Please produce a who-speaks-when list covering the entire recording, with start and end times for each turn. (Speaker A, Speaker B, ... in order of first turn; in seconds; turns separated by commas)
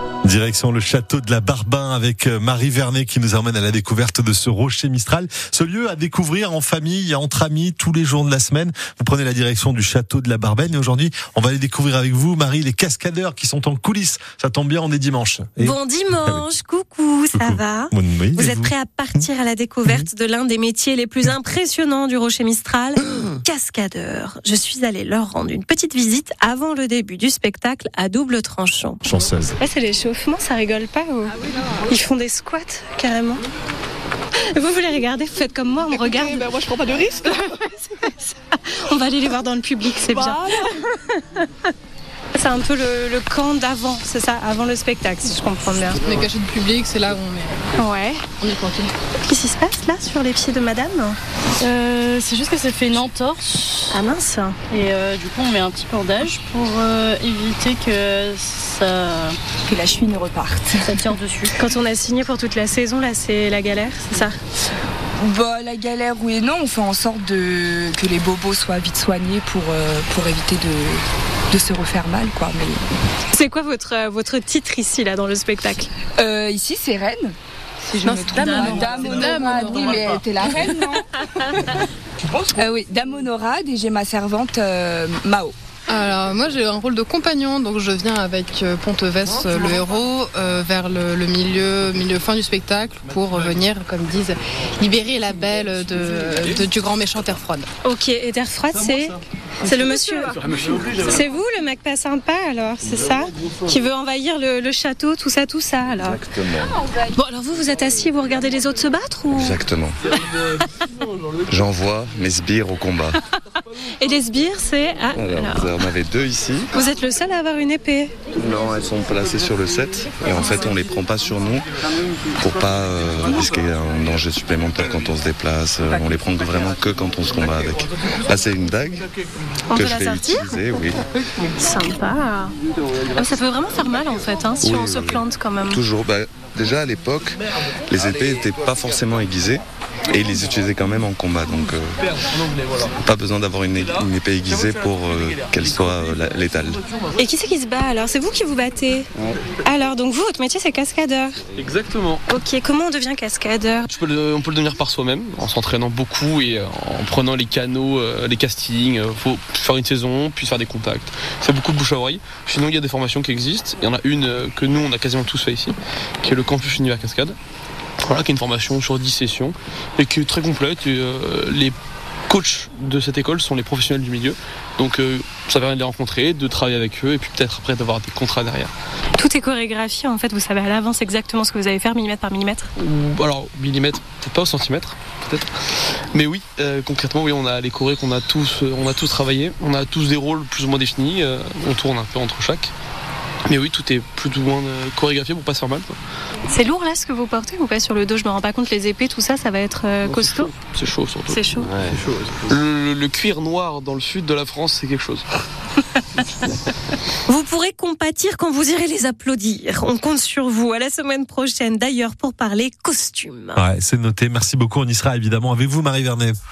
Speaker A: 0.2-16.4, Speaker B: 15.6-29.0, Speaker A: 17.3-19.3, Speaker A: 29.1-29.6, Speaker B: 29.6-31.4, Speaker B: 31.9-33.4, Speaker B: 34.5-36.6, Speaker C: 36.3-37.2, Speaker B: 37.4-41.5, Speaker B: 42.4-46.0, Speaker D: 46.0-47.8, Speaker B: 47.8-48.2, Speaker D: 48.4-48.9, Speaker B: 49.3-51.2, Speaker E: 51.6-54.0, Speaker B: 53.9-54.6, Speaker E: 54.7-59.4, Speaker C: 59.7-61.1, Speaker E: 60.9-61.5, Speaker B: 61.5-64.4, Speaker C: 65.2-72.9, Speaker B: 73.3-75.9, Speaker C: 76.2-81.0, Speaker D: 78.0-80.6, Speaker C: 82.3-85.5, Speaker D: 85.9-97.7, Speaker B: 97.8-100.3, Speaker F: 100.4-101.0, Speaker B: 101.1-106.2, Speaker G: 105.9-106.8, Speaker B: 107.2-109.6, Speaker G: 109.3-110.0, Speaker G: 111.5-113.2, Speaker B: 114.0-115.9, Speaker G: 115.1-116.7, Speaker B: 116.7-118.1, Speaker G: 118.4-121.7, Speaker G: 122.4-129.1, Speaker B: 129.7-130.6, Speaker G: 129.7-131.0, Speaker B: 131.6-132.5, Speaker B: 133.2-135.8, Speaker G: 134.6-142.0, Speaker G: 143.0-146.8, Speaker B: 147.2-149.1, Speaker B: 149.6-151.4, Speaker F: 151.6-152.2, Speaker B: 152.3-153.9, Speaker F: 153.9-167.4, Speaker F: 168.0-171.8, Speaker F: 172.3-178.7, Speaker B: 179.2-182.7, Speaker F: 182.8-185.5, Speaker F: 186.1-192.7, Speaker F: 193.5-196.0, Speaker B: 196.5-200.5, Speaker F: 200.1-201.7, Speaker B: 201.3-201.7, Speaker F: 202.5-205.2, Speaker B: 207.3-213.6, Speaker A: 213.6-216.3